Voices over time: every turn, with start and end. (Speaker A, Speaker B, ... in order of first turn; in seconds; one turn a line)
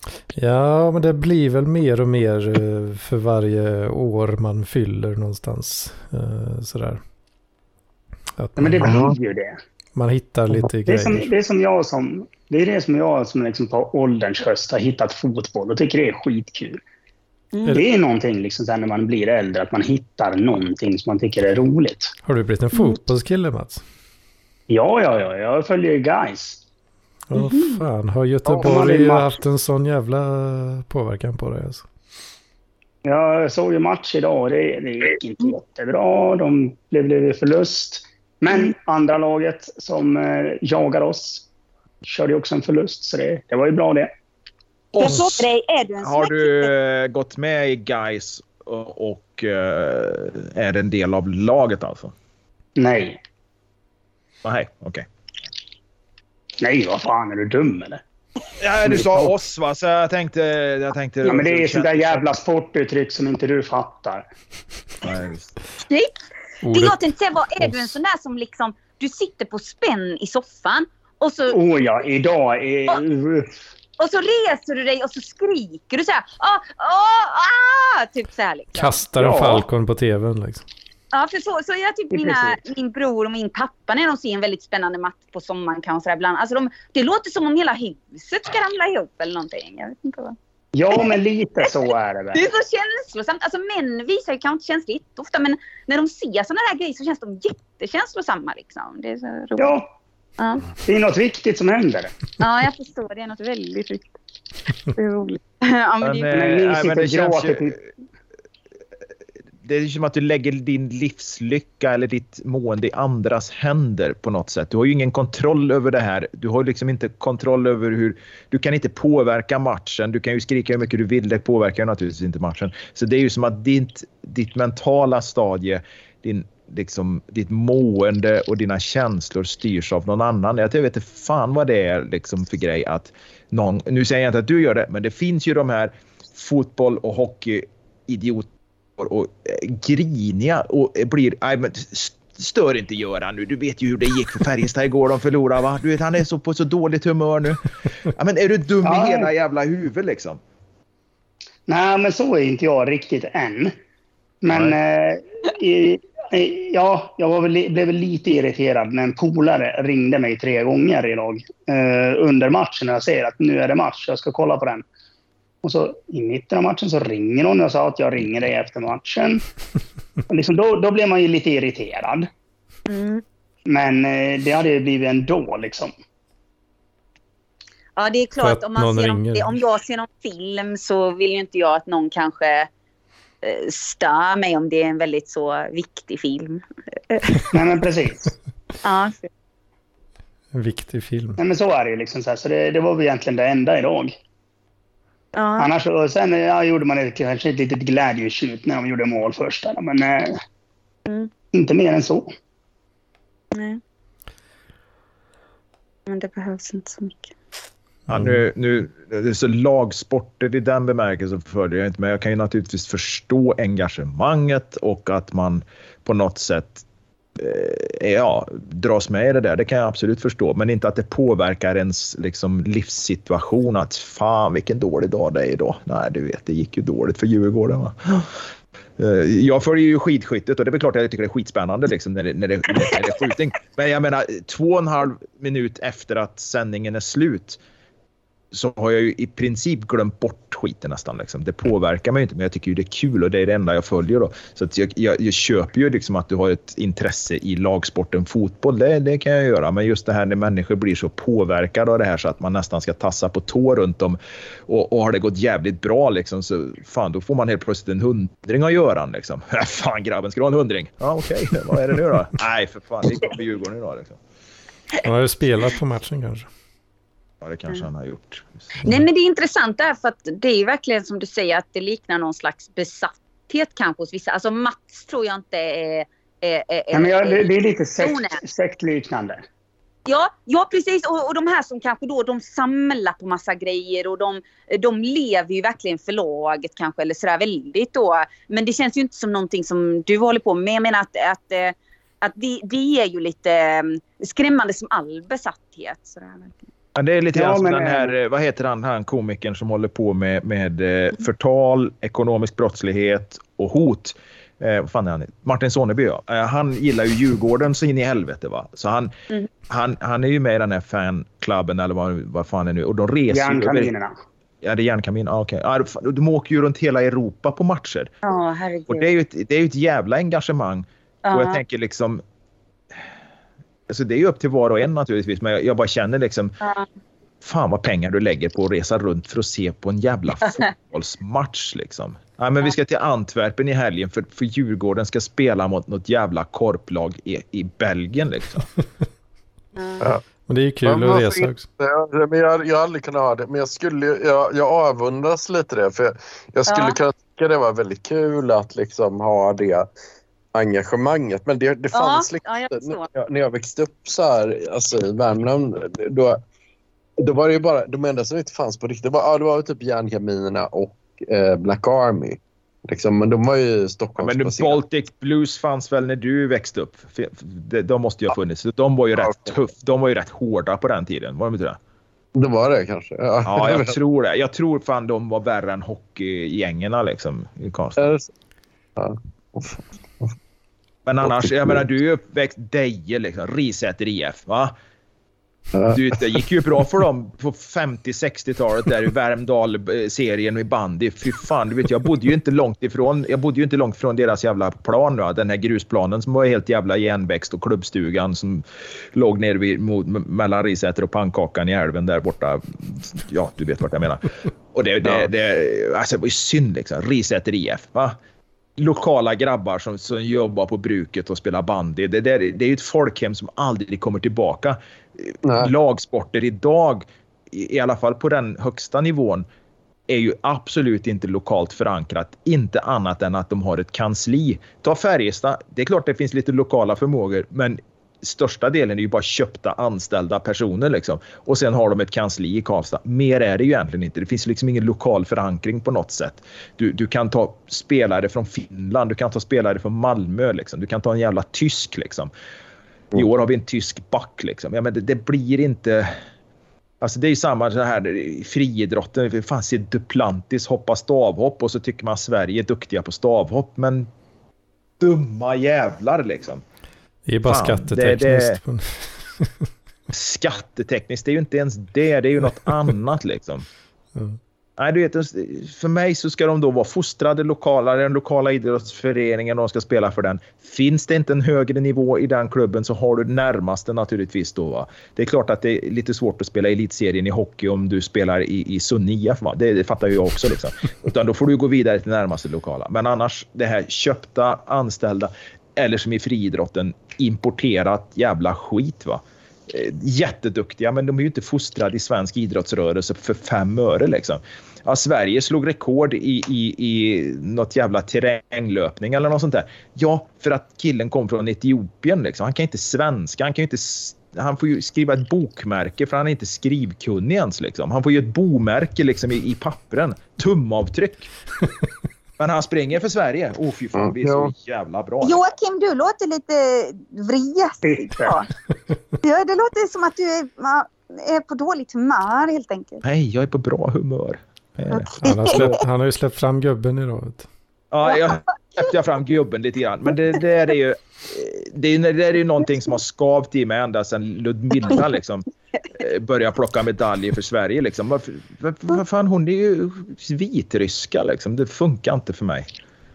Speaker A: 0.3-7.0
Speaker A: 8.4-9.0
Speaker B: 8.6-9.6
Speaker C: 8.8-9.2
Speaker A: 10.0-11.3
Speaker B: 10.9-16.8
Speaker D: 17.5-17.8
Speaker B: 17.7-22.1
Speaker A: 22.2-23.8
Speaker D: 22.7-23.0
Speaker B: 24.7-26.6
Speaker A: 27.3-31.9
Speaker D: 27.3-27.8
Speaker B: 28.6-29.3
Speaker B: 33.0-41.5
Speaker D: 38.5-38.8
Speaker B: 42.0-44.1
Speaker E: 44.9-45.5
Speaker D: 45.0-46.7
Speaker E: 46.0-52.1
Speaker B: 52.8-53.2
Speaker E: 54.4-55.1
Speaker B: 56.6-58.0
Speaker E: 58.6-62.2
Speaker B: 58.9-59.3
Speaker B: 61.2-64.2
Speaker E: 65.0-65.5
Speaker A: 66.6-67.0
Speaker D: 66.7-71.6
Speaker A: 67.6-67.9
Speaker B: 71.5-73.5
Speaker D: 74.0-79.0
Speaker A: 78.7-80.7
Speaker B: 79.2-79.6
Speaker D: 81.1-90.4
Speaker B: 82.1-82.6
Speaker B: 90.7-92.4
Speaker D: 91.7-99.8
Speaker B: 99.6-99.8
Speaker D: 100.4-100.6
Speaker B: 100.8-102.1
Speaker D: 102.4-104.1
Speaker D: 104.9-106.3
Speaker E: 106.0-107.8
Speaker B: 106.3-107.8
Speaker E: 109.6-150.4
Speaker B: 148.8-149.3
Speaker B: 151.7-153.7
Speaker B: 154.4-164.8
Speaker E: 154.5-154.8
Speaker B: 165.6-169.4
Speaker B: 170.3-172.3
Speaker D: 172.9-173.2
Speaker B: 173.7-175.9
Speaker D: 178.0-182.7
Speaker A: 178.4-179.6
Speaker D: 183.4-187.5
Speaker B: 187.5-188.3
Speaker D: 188.8-189.3
Speaker A: 190.5-191.4
Speaker B: 191.4-194.1
Speaker D: 195.3-195.7
Speaker B: 195.6-200.4
Speaker D: 201.1-201.3
Speaker B: 201.5-202.3
Speaker D: 203.5-203.8
Speaker D: 206.1-207.3
Speaker E: 208.1-216.8
Speaker E: 217.4-228.4
Speaker E: 229.0-237.6
Speaker E: 238.5-264.2
Speaker A: 265.0-266.5
Speaker E: 267.4-268.5
Speaker D: 268.9-278.4
Speaker B: 276.9-279.4
Speaker D: 280.1-296.6
Speaker E: 296.9-309.1
Speaker B: 297.3-298.1
Speaker E: 309.7-313.9
Speaker B: 313.3-314.1
Speaker E: 314.6-318.1
Speaker D: 318.2-319.1
Speaker E: 318.9-322.2
Speaker D: 321.2-321.6
Speaker E: 323.9-326.6
Speaker D: 326.6-326.9
Speaker E: 327.4-338.7
Speaker D: 330.4-330.7
Speaker D: 339.8-340.1
Speaker A: 340.5-341.7
Speaker C: 340.8-349.9
Speaker D: 346.7-347.0
Speaker C: 350.5-356.4
Speaker D: 351.9-353.1
Speaker C: 357.2-364.8
Speaker E: 364.2-371.8
Speaker C: 372.4-373.9
Speaker E: 373.5-378.1
Speaker C: 378.0-378.3
Speaker C: 379.0-380.3
Speaker E: 381.1-384.7
Speaker C: 381.3-381.8
Speaker C: 385.7-386.0
Speaker E: 385.9-408.2
Speaker E: 408.8-419.5
Speaker C: 415.4-415.7
Speaker E: 420.1-442.3
Speaker E: 443.1-446.1
Speaker E: 447.0-454.1
Speaker E: 455.0-456.6
Speaker A: 457.3-459.5
Speaker E: 457.5-458.6
Speaker E: 460.1-463.6
Speaker E: 464.8-511.3
Speaker E: 512.4-515.4
Speaker C: 514.0-514.5
Speaker D: 515.2-518.5
Speaker B: 517.8-518.4
Speaker D: 519.2-523.0
Speaker E: 523.0-525.7
Speaker D: 524.9-525.7
Speaker A: 525.2-527.5
Speaker E: 527.9-535.5
Speaker E: 536.0-542.7